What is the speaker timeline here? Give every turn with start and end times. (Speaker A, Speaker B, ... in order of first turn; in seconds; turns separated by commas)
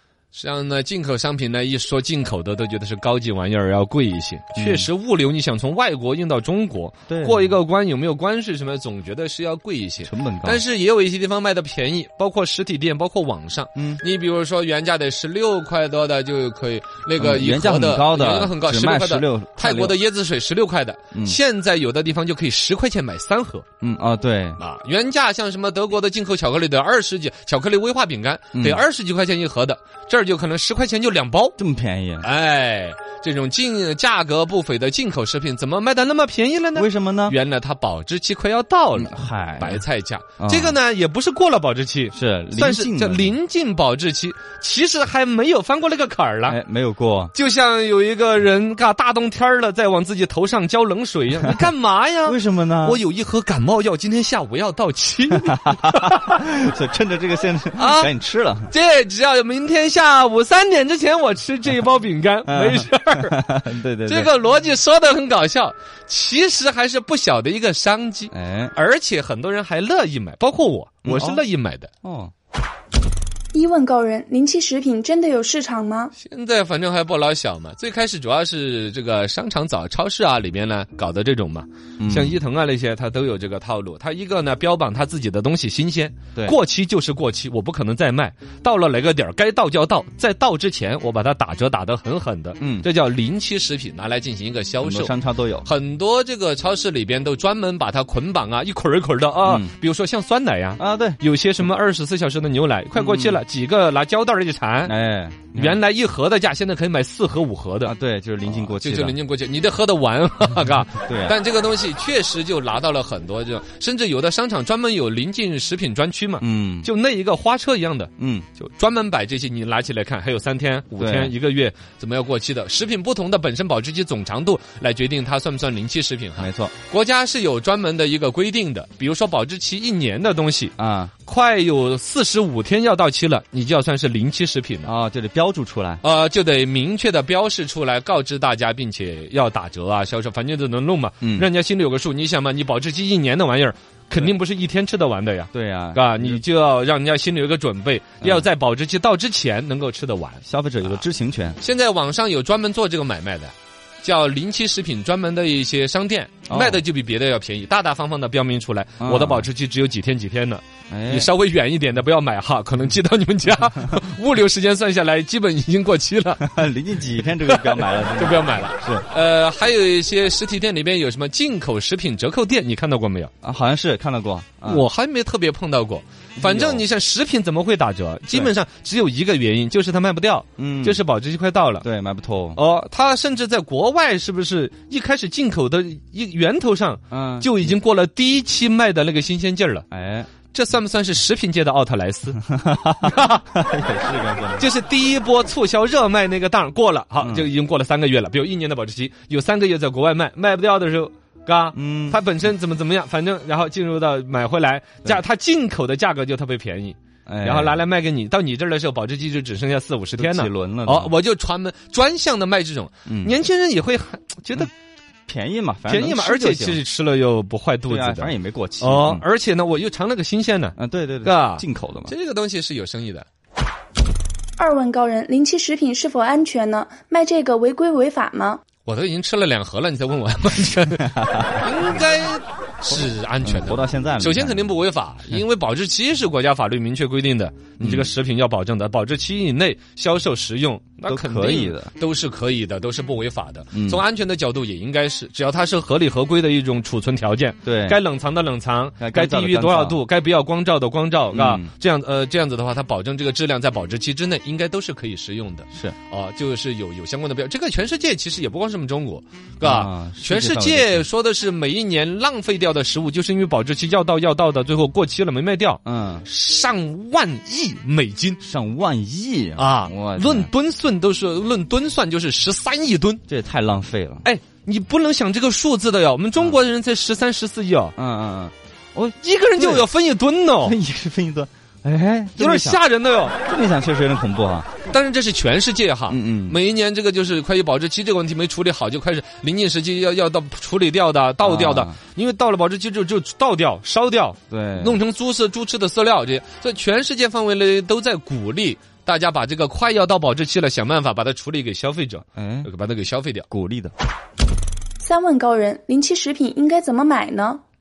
Speaker A: 0.3-23.6, Speaker B: 4.5-4.9, Speaker B: 7.1-7.6, Speaker B: 10.0-10.6, Speaker B: 13.7-14.0, Speaker B: 17.2-20.0, Speaker B: 21.1-21.4, Speaker B: 23.8-24.6, Speaker A: 24.6-31.5, Speaker B: 28.5-28.8, Speaker B: 31.6-32.3, Speaker A: 32.2-46.6, Speaker B: 36.7-37.4, Speaker B: 38.9-39.8, Speaker B: 40.4-40.8, Speaker B: 42.1-43.4, Speaker B: 46.5-47.3, Speaker A: 47.3-56.4, Speaker B: 52.2-53.0, Speaker B: 55.4-58.7, Speaker A: 57.8-58.1, Speaker A: 58.7-63.4, Speaker B: 62.5-64.3, Speaker A: 64.0-71.9, Speaker B: 68.3-68.7, Speaker B: 71.0-71.4, Speaker B: 72.0-72.3, Speaker C: 73.5-76.1, Speaker A: 76.1-104.9, Speaker B: 82.0-82.4, Speaker B: 92.6-92.9, Speaker B: 94.8-95.7, Speaker B: 99.4-99.7, Speaker B: 100.8-101.2, Speaker B: 102.9-103.4, Speaker B: 104.8-105.8, Speaker A: 105.5-107.9, Speaker B: 107.8-109.2, Speaker A: 108.5-134.9, Speaker B: 111.0-111.3, Speaker B: 116.4-116.9, Speaker B: 118.2-118.5, Speaker B: 121.0-121.3, Speaker B: 126.4-126.7, Speaker B: 130.8-131.1, Speaker B: 134.8-136.0, Speaker A: 136.0-151.0, Speaker B: 141.2-141.5, Speaker B: 145.5-146.4, Speaker B: 148.2-148.5, Speaker B: 150.4-151.6, Speaker A: 151.6-166.5, Speaker B: 156.5-156.8, Speaker B: 159.0-159.5, Speaker B: 160.9-161.3, Speaker B: 166.4-169.1, Speaker A: 167.2-173.3, Speaker B: 173.4-174.9, Speaker A: 174.6-181.8, Speaker B: 176.4-176.8, Speaker B: 180.6-181.0, Speaker B: 181.8-182.6, Speaker A: 182.5-189.9, Speaker B: 187.1-187.8, Speaker B: 189.9-190.3, Speaker A: 190.5-192.4, Speaker B: 192.4-194.7, Speaker A: 193.0-193.4, Speaker A: 194.6-214.7, Speaker B: 197.2-197.5, Speaker B: 201.7-202.2, Speaker B: 207.3-207.8, Speaker B: 210.2-211.1, Speaker B: 213.1-213.3, Speaker B: 215.3-216.8, Speaker A: 215.9-223.3, Speaker B: 217.9-219.2, Speaker B: 220.8-222.1, Speaker C: 224.6-228.6, Speaker A: 228.8-268.4, Speaker B: 231.0-231.7, Speaker B: 232.9-234.8, Speaker B: 237.8-238.1, Speaker B: 241.1-241.9, Speaker B: 243.7-244.0, Speaker B: 247.6-248.0, Speaker B: 249.0-250.0, Speaker B: 251.3-251.7, Speaker B: 259.6-261.1, Speaker B: 265.8-266.3, Speaker B: 268.4-270.5, Speaker A: 269.6-273.2, Speaker B: 273.3-274.2, Speaker A: 274.2-277.9, Speaker B: 278.0-279.9, Speaker A: 279.2-280.8, Speaker B: 280.6-282.8, Speaker A: 282.4-283.4, Speaker B: 283.4-284.7, Speaker A: 284.8-303.5, Speaker B: 286.1-286.6, Speaker B: 291.4-292.0, Speaker B: 294.5-295.0, Speaker B: 302.4-302.7, Speaker B: 303.5-303.9, Speaker C: 305.0-307.6